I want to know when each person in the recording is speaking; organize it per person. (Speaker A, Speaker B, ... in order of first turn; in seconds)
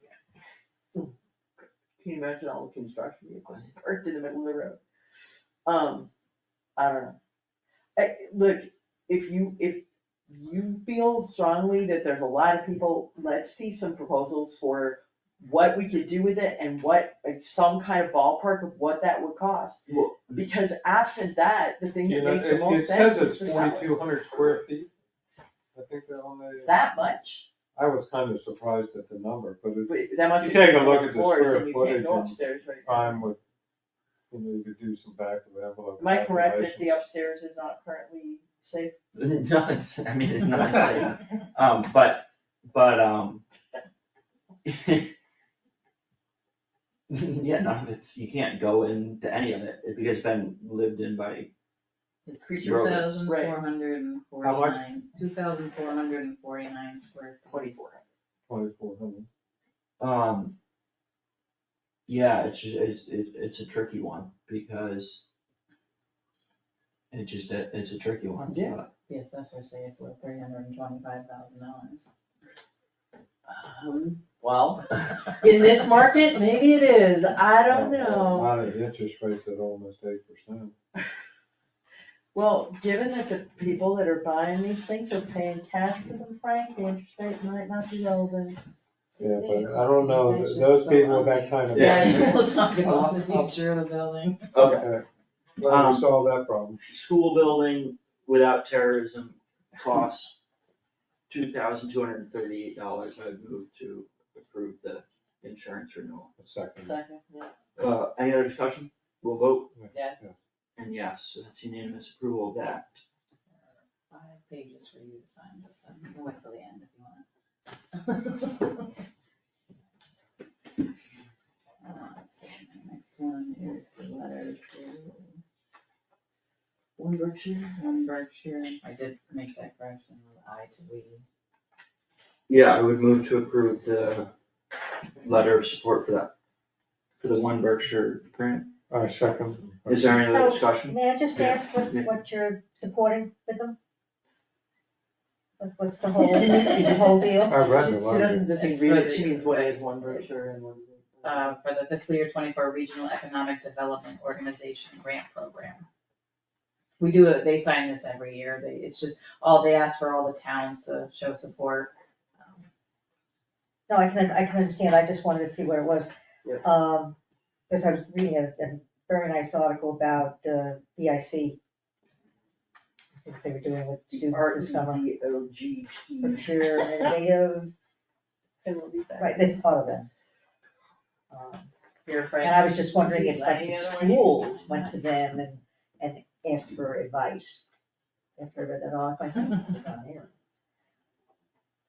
Speaker A: 2.0-4.8, 5.6-6.1, 6.8-7.2, 8.0-24.1, 26.6-27.5, 29.9-33.2, 36.0-38.9, 53.2-53.6, 57.5-58.0, 68.5-68.8, 73.5-78.6, 82.3-88.6, 106.8-107.5, 109.9-110.2, 146.4-151.6, 174.1-177.2, 178.6-179.6, 182.1-184.7
Speaker B: 19.9-20.2, 39.1-43.4, 44.6-45.1, 47.1-51.5, 52.5-53.3, 60.0-60.5, 62.1-65.2, 67.1-68.9, 91.7-92.3, 94.5-94.9, 95.6-96.1, 96.9-100.4, 101.3-106.3, 107.8-109.7, 110.8-113.0, 127.0-128.1, 132.5-134.3, 135.2-136.3, 137.2-138.7, 139.9-142.2
Speaker C: 22.0-24.9, 25.7-26.8, 27.7-33.4, 34.3-36.9, 54.4-54.8, 58.5-59.3, 77.7-80.7, 89.2-92.3, 94.5-95.0, 95.6-96.8, 106.4-106.9, 109.7-110.3, 138.9-140.3, 147.5-148.5
Speaker D: 52.2-57.6, 69.1-72.0, 89.1-94.5, 114.1-117.2, 117.9-118.9, 121.8-125.4, 127.8-131.2, 148.6-150.5, 151.2-155.8, 157.0-162.7
Speaker E: 140.2-143.7, 145.6-147.7, 163.9-166.1, 166.6-167.2, 167.7-171.6, 173.1-175.1, 176.2-177.7, 179.2-180.1, 181.3-181.7, 182.4-187.6, 188.4-190.3